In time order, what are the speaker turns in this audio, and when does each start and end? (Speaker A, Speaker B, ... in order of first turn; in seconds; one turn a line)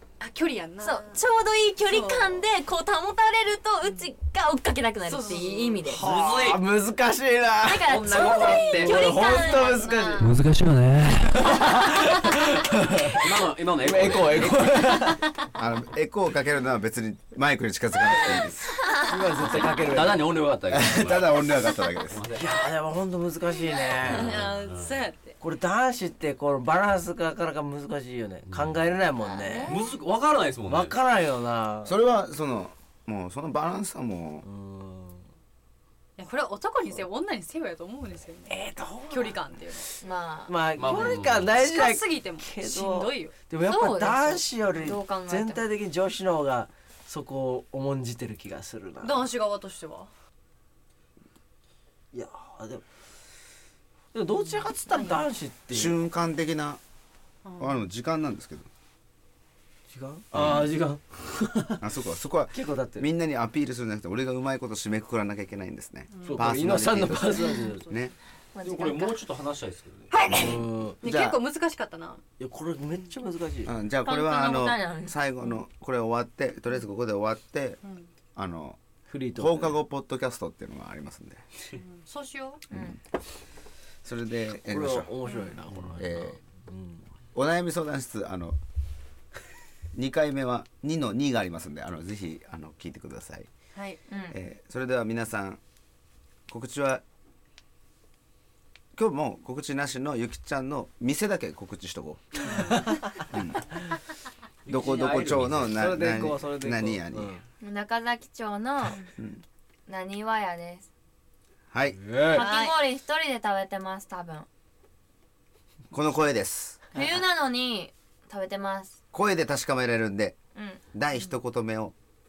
Speaker A: 0.2-1.2
Speaker B: 0.8-6.0
Speaker A: 1.8-2.4
Speaker A: 5.1-6.0
Speaker C: 5.9-10.1
Speaker D: 5.9-6.6
Speaker B: 7.6-10.4
Speaker D: 7.9-9.0
Speaker A: 8.2-10.2
Speaker D: 10.2-11.6
Speaker C: 11.2-15.2
Speaker D: 13.1-15.0
Speaker E: 15.6-18.7
Speaker C: 19.0-20.4
Speaker D: 19.5-21.6
Speaker E: 20.7-22.2
Speaker D: 22.1-22.7
Speaker C: 22.4-24.4
Speaker A: 24.0-25.4
Speaker D: 24.0-25.0
Speaker C: 25.4-29.8
Speaker D: 28.5-28.9
Speaker B: 29.2-29.8
Speaker D: 29.7-31.0
Speaker C: 30.7-31.9
Speaker E: 31.9-34.5
Speaker C: 34.4-35.2
Speaker A: 36.2-40.0
Speaker C: 38.5-39.4
Speaker B: 40.0-40.6
Speaker C: 40.5-49.3
Speaker D: 40.8-41.5
Speaker A: 40.8-43.3
Speaker B: 43.6-45.6
Speaker A: 49.0-50.1
Speaker C: 52.1-52.8
Speaker C: 54.1-56.0
Speaker A: 54.6-55.3
Speaker E: 55.7-56.8
Speaker A: 57.4-57.8
Speaker E: 57.6-58.7
Speaker C: 59.9-61.9
Speaker E: 60.3-60.7
Speaker E: 61.8-68.1
Speaker C: 62.5-63.1
Speaker A: 66.1-66.5
Speaker C: 66.2-67.9
Speaker A: 67.5-67.9
Speaker B: 68.5-69.2
Speaker D: 68.6-70.1
Speaker C: 70.3-71.0
Speaker E: 70.3-71.4
Speaker A: 71.0-72.2
Speaker C: 72.4-73.8
Speaker E: 73.7-77.8
Speaker B: 74.0-75.2
Speaker A: 77.8-78.1
Speaker E: 78.3-78.8
Speaker C: 79.1-79.7
Speaker E: 79.3-81.4
Speaker A: 81.7-82.6
Speaker E: 82.7-83.0
Speaker E: 84.0-85.1
Speaker C: 84.6-87.1
Speaker A: 85.2-85.6
Speaker D: 85.7-86.0
Speaker E: 86.0-86.4
Speaker E: 87.3-88.6
Speaker E: 89.9-93.5
Speaker A: 93.8-94.0
Speaker B: 94.1-94.4
Speaker E: 94.3-95.6
Speaker E: 96.5-97.0
Speaker E: 99.0-102.7
Speaker A: 102.5-102.9
Speaker C: 102.6-102.9
Speaker E: 103.3-103.7
Speaker D: 104.7-105.8
Speaker E: 104.7-107.3
Speaker C: 105.7-107.4
Speaker B: 107.6-109.0
Speaker B: 109.9-110.9
Speaker E: 111.7-112.0
Speaker C: 112.0-112.5
Speaker B: 112.3-114.5
Speaker A: 112.3-112.7
Speaker E: 115.9-116.8
Speaker B: 116.9-119.0
Speaker E: 119.1-120.4
Speaker B: 120.5-120.8
Speaker E: 120.9-121.9